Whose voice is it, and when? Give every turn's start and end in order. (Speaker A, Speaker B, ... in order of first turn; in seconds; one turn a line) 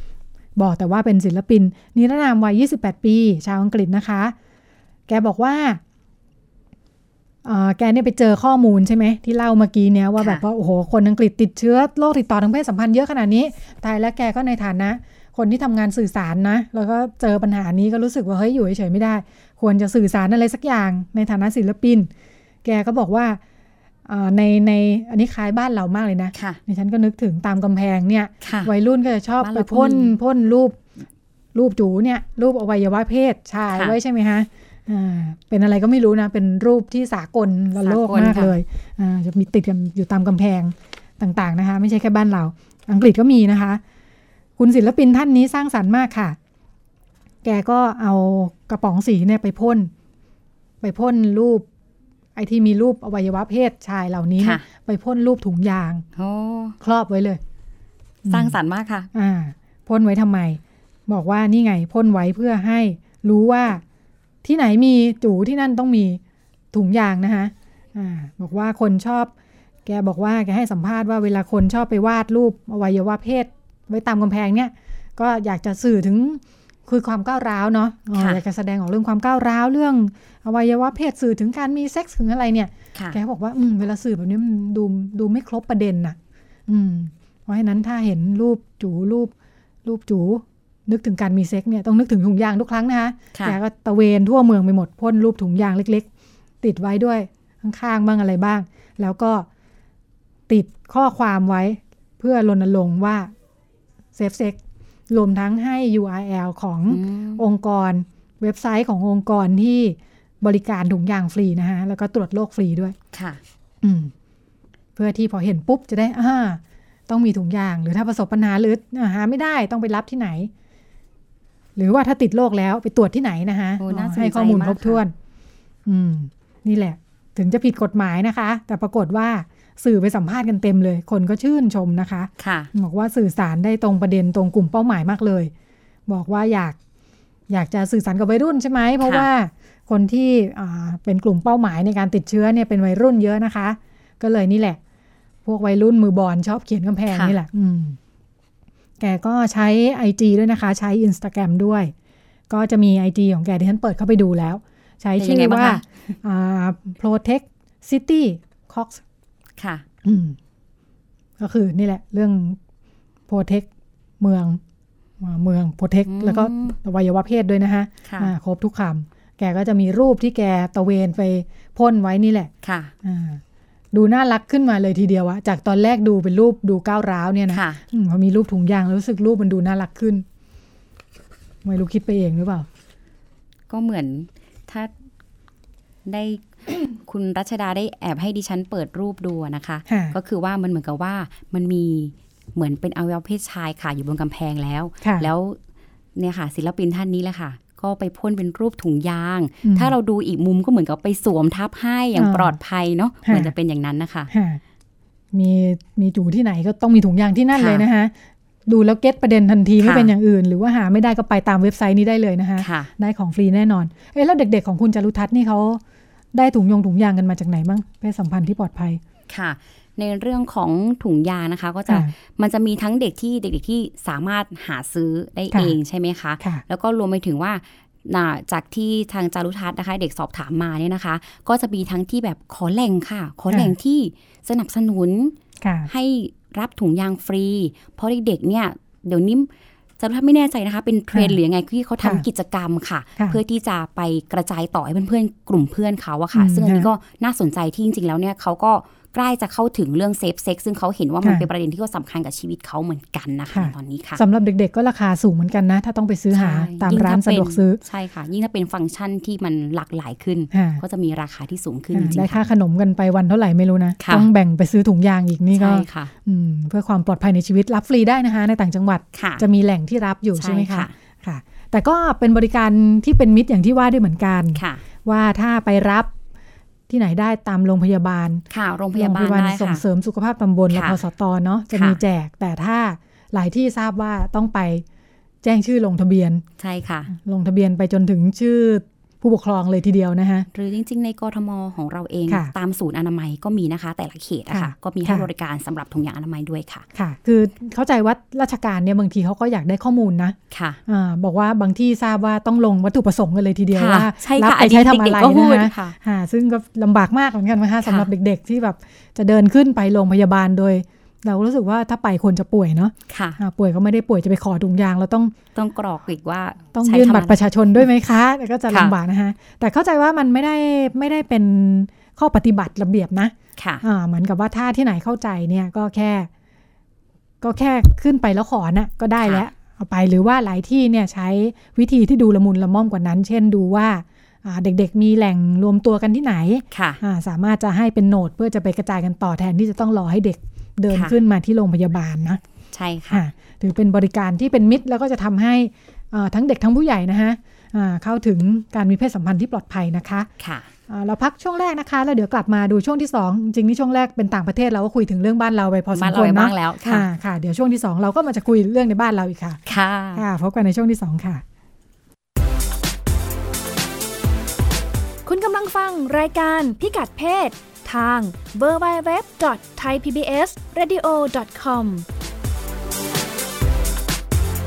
Speaker A: 0.6-4.3
Speaker A: 5.1-5.8
Speaker A: 7.4-22.1
Speaker B: 10.2-10.4
Speaker A: 22.6-23.4
Speaker A: 24.1-30.8
Speaker B: 26.3-26.6
Speaker B: 28.4-28.7
Speaker B: 29.4-30.2
Speaker A: 31.5-43.8
Speaker B: 33.7-34.0
Speaker B: 37.8-38.5
Speaker A: 44.6-46.4
Speaker A: 47.4-49.9
Speaker A: 50.8-51.6
Speaker A: 52.4-56.0
Speaker B: 54.4-54.6
Speaker B: 56.1-56.8
Speaker A: 56.8-57.4
Speaker A: 58.2-58.6
Speaker B: 58.3-59.1
Speaker A: 59.1-63.8
Speaker A: 64.4-66.2
Speaker A: 66.7-69.3
Speaker A: 69.8-89.3
Speaker B: 78.1-78.4
Speaker A: 89.8-96.1
Speaker A: 96.6-99.5
Speaker A: 100.5-103.3
Speaker A: 104.1-104.6
Speaker A: 105.1-113.0
Speaker B: 106.9-107.5
Speaker B: 113.1-113.4
Speaker A: 113.8-114.1
Speaker A: 115.0-120.5
Speaker A: 121.8-125.1
Speaker B: 123.8-125.0
Speaker A: 125.8-135.5
Speaker B: 132.4-132.7
Speaker A: 136.1-136.8
Speaker A: 137.5-144.8
Speaker B: 139.0-139.3
Speaker A: 145.4-148.0
Speaker B: 147.1-147.3
Speaker A: 149.0-151.9
Speaker A: 152.5-159.0
Speaker B: 155.2-155.8
Speaker B: 159.6-159.8
Speaker A: 160.0-160.4
Speaker A: 161.4-162.6
Speaker A: 163.3-163.7
Speaker A: 164.2-164.6
Speaker A: 165.2-172.5
Speaker B: 166.1-166.8
Speaker B: 168.0-168.3
Speaker B: 172.6-172.9
Speaker A: 173.0-173.4
Speaker A: 173.9-180.2
Speaker B: 177.5-177.8
Speaker A: 181.6-182.7
Speaker B: 183.7-184.9
Speaker B: 186.0-195.6
Speaker A: 189.9-190.2
Speaker A: 195.0-195.3
Speaker B: 196.2-204.3
Speaker A: 199.6-199.9
Speaker A: 202.2-202.6
Speaker A: 203.2-203.5
Speaker A: 204.3-204.6
Speaker A: 205.3-208.1
Speaker B: 207.5-207.8
Speaker A: 208.7-215.8
Speaker B: 209.8-210.1
Speaker B: 212.6-212.9
Speaker A: 216.3-219.0
Speaker B: 219.3-235.3
Speaker A: 235.6-235.9
Speaker B: 235.9-254.2
Speaker A: 241.1-241.4
Speaker A: 246.3-246.9
Speaker A: 253.5-257.8
Speaker B: 256.3-262.5
Speaker A: 260.5-260.8
Speaker A: 261.9-276.1
Speaker B: 264.0-264.3
Speaker B: 265.5-266.1
Speaker B: 269.1-269.4
Speaker B: 270.4-270.9
Speaker B: 274.5-274.8
Speaker A: 276.9-278.4
Speaker B: 278.5-279.8
Speaker A: 278.9-284.8
Speaker B: 280.7-281.0
Speaker B: 281.7-282.0
Speaker A: 285.4-286.4
Speaker B: 286.6-287.1
Speaker A: 287.1-290.5
Speaker B: 290.5-296.9
Speaker A: 292.3-292.5
Speaker A: 294.5-295.3
Speaker A: 296.9-315.3
Speaker B: 300.5-300.8
Speaker B: 303.7-305.9
Speaker B: 307.8-308.1
Speaker B: 313.1-313.4
Speaker B: 315.5-317.4
Speaker A: 316.7-326.3
Speaker B: 318.7-318.9
Speaker B: 323.6-323.8
Speaker A: 327.4-342.4
Speaker B: 329.2-329.4
Speaker B: 336.7-337.0
Speaker B: 340.9-341.2
Speaker B: 342.7-343.2
Speaker A: 343.1-350.3
Speaker B: 350.4-350.7
Speaker A: 350.9-359.6
Speaker B: 355.9-357.1
Speaker B: 359.7-360.2
Speaker A: 360.1-361.4
Speaker C: 365.2-372.1